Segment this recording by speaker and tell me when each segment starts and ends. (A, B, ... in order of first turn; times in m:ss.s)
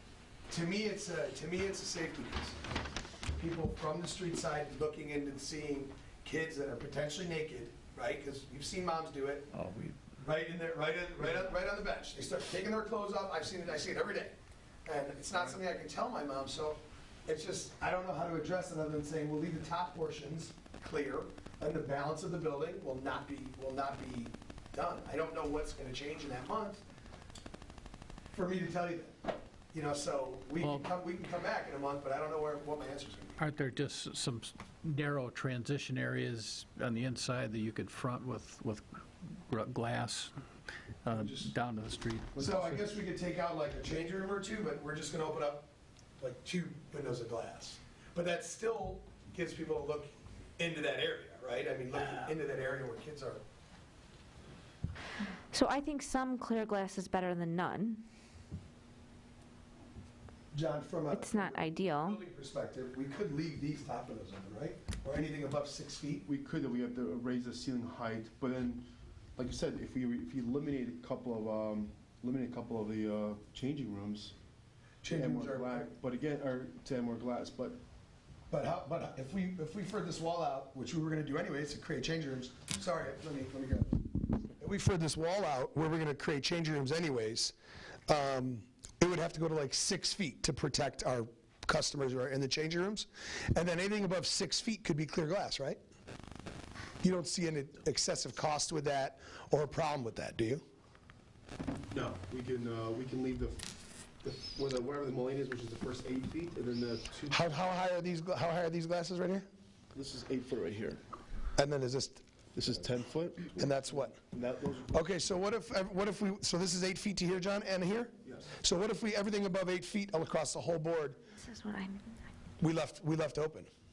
0:00.5-0:02.6 A
0:03.3-0:09.5 A
0:09.5-0:10.0 B
0:10.2-0:14.3 A
0:14.8-0:26.8 A
0:28.3-0:33.4 A
0:30.6-0:30.9 B
0:33.4-0:40.4 B
0:41.0-0:42.8 B
0:41.1-0:41.5 A
0:42.4-0:45.7 A
0:46.2-0:53.4 A
0:55.5-0:58.0 C
1:00.5-1:06.3 A
1:01.1-1:02.2 C
1:06.3-1:08.8 D
1:09.4-1:14.3 D
1:15.0-1:15.9 A
1:15.1-1:17.8 D
1:18.5-1:27.5 A
1:28.1-1:35.8 A
1:37.0-1:40.6 A
1:41.9-1:47.4 D
1:47.3-1:49.5 A
1:49.9-1:51.0 D
1:51.6-1:52.2 A
1:52.6-1:55.1 D
1:53.6-1:54.2 A
1:54.9-2:01.2 A
2:01.4-2:02.2 C
2:02.6-2:03.7 A